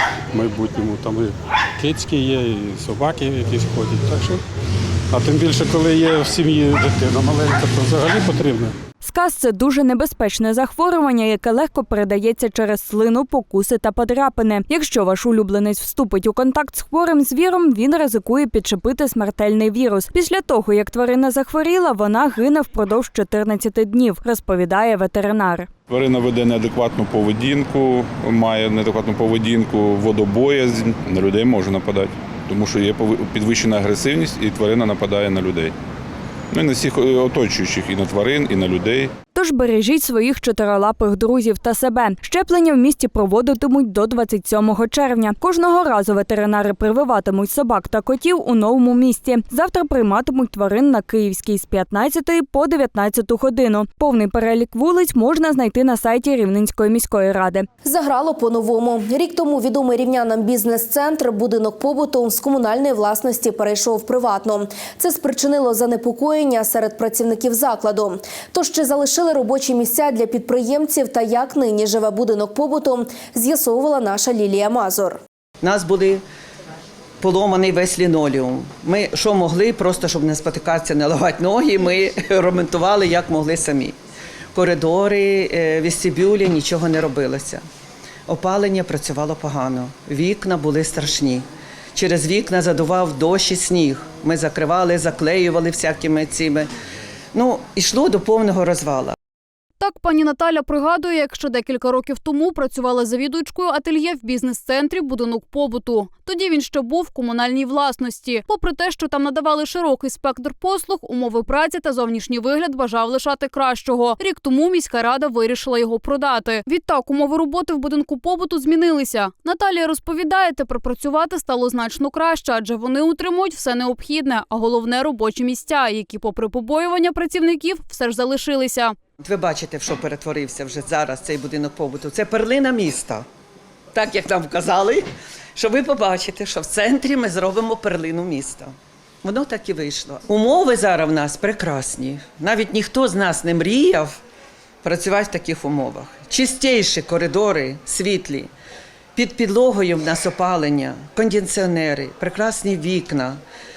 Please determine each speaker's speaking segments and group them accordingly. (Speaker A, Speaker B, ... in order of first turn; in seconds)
Speaker A: 0.3-4.4, 5.1-8.7
Speaker B: 9.0-25.7, 39.3-57.6
Speaker C: 25.9-35.7, 36.5-39.1
Speaker D: 57.8-75.2
Speaker E: 75.6-76.2, 77.2-84.0, 84.5-87.6, 88.3-96.7, 97.3-99.1, 129.2-133.2, 133.9-144.2, 144.8-148.5, 149.2-153.4
Speaker F: 99.8-128.9